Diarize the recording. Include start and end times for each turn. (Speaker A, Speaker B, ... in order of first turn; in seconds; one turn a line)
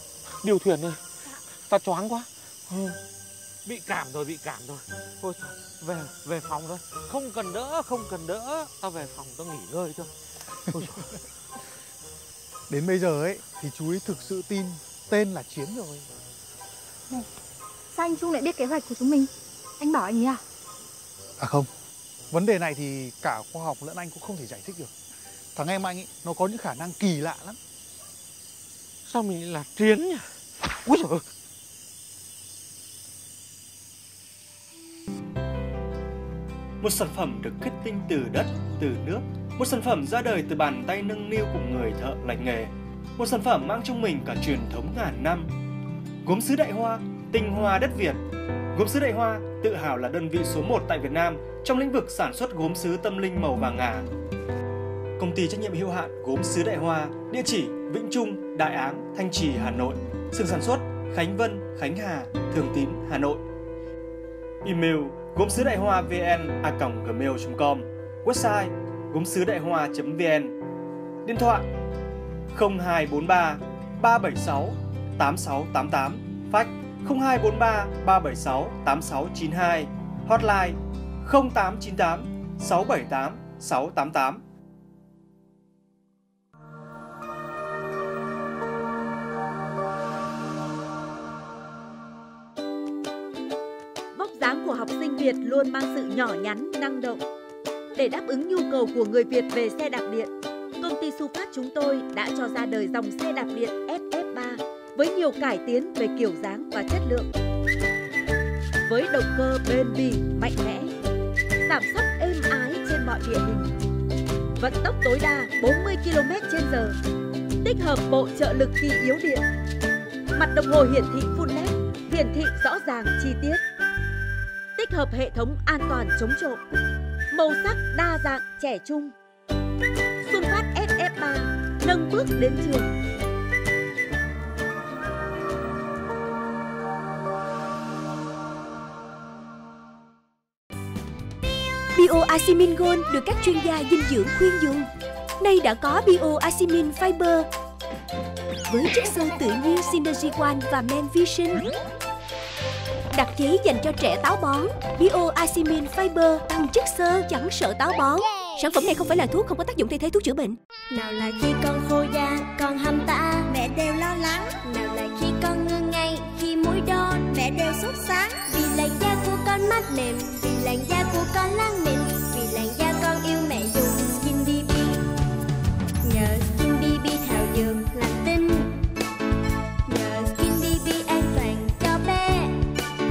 Speaker A: 0.4-1.0
Speaker A: 1.7-3.0
Speaker A: 3.7-10.1
Speaker A: 10.7-11.0
Speaker B: 12.7-16.1
Speaker C: 17.9-20.4
Speaker B: 21.4-21.7
Speaker B: 22.3-24.9
Speaker B: 25.6-27.6
Speaker A: 29.1-30.3
Speaker A: 30.9-31.2
Speaker D: 36.8-45.5
Speaker D: 46.2-48.2
Speaker D: 48.7-54.1
Speaker D: 55.2-63.4
Speaker D: 64.6-70.5
Speaker D: 71.2-71.7
Speaker D: 72.5-84.4
Speaker E: 94.1-97.2
Speaker E: 98.0-107.3
Speaker E: 108.9-110.9
Speaker E: 111.6-113.8
Speaker E: 114.6-117.0
Speaker E: 117.6-119.4
Speaker E: 120.3-123.6
Speaker E: 124.8-126.6
Speaker E: 127.3-129.2
Speaker E: 130.2-132.9
Speaker F: 141.9-144.9
Speaker F: 145.4-147.5
Speaker F: 148.7-151.7
Speaker F: 153.1-160.6
Speaker G: 160.9-175.0
Speaker G: 176.0-178.8
Speaker G: 179.9-182.6